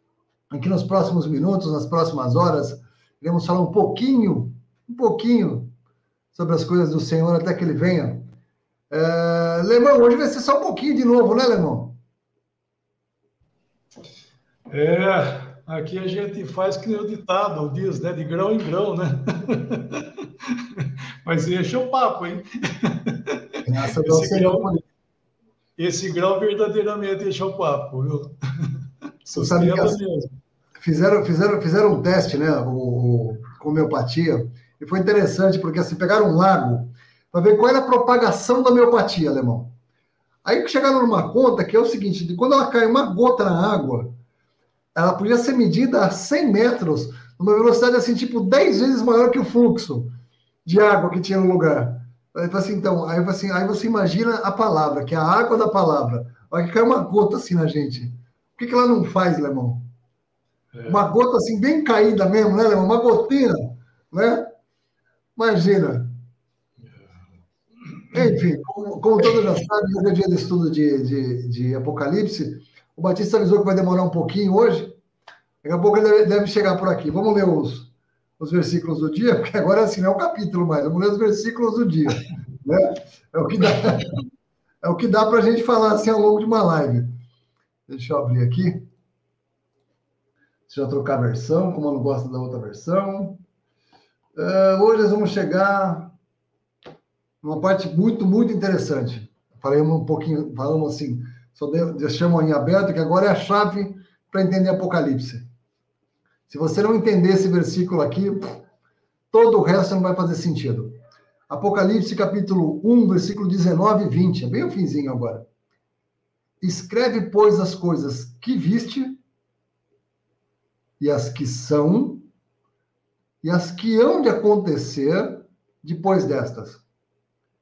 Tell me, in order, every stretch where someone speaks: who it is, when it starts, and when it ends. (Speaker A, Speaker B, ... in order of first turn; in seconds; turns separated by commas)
Speaker A: 0.5-5.7, Speaker A: 6.3-8.3, Speaker A: 8.9-12.0, Speaker B: 14.7-24.7, Speaker A: 23.7-24.8, Speaker B: 25.8-28.3, Speaker B: 29.2-30.3, Speaker A: 29.3-30.0, Speaker A: 30.8-39.7, Speaker A: 40.4-44.1, Speaker A: 44.9-50.1, Speaker A: 50.6-59.9, Speaker B: 60.7-61.1, Speaker A: 60.9-64.5, Speaker A: 65.3-66.2, Speaker A: 68.1-75.0, Speaker A: 75.6-84.1, Speaker A: 84.8-87.1, Speaker A: 87.9-88.9, Speaker A: 90.7-93.4, Speaker A: 94.3-96.1, Speaker A: 97.4-105.5, Speaker A: 106.5-108.6, Speaker A: 109.3-110.9, Speaker A: 111.5-115.5, Speaker A: 116.6-119.2, Speaker A: 121.0-122.3, Speaker A: 123.4-126.8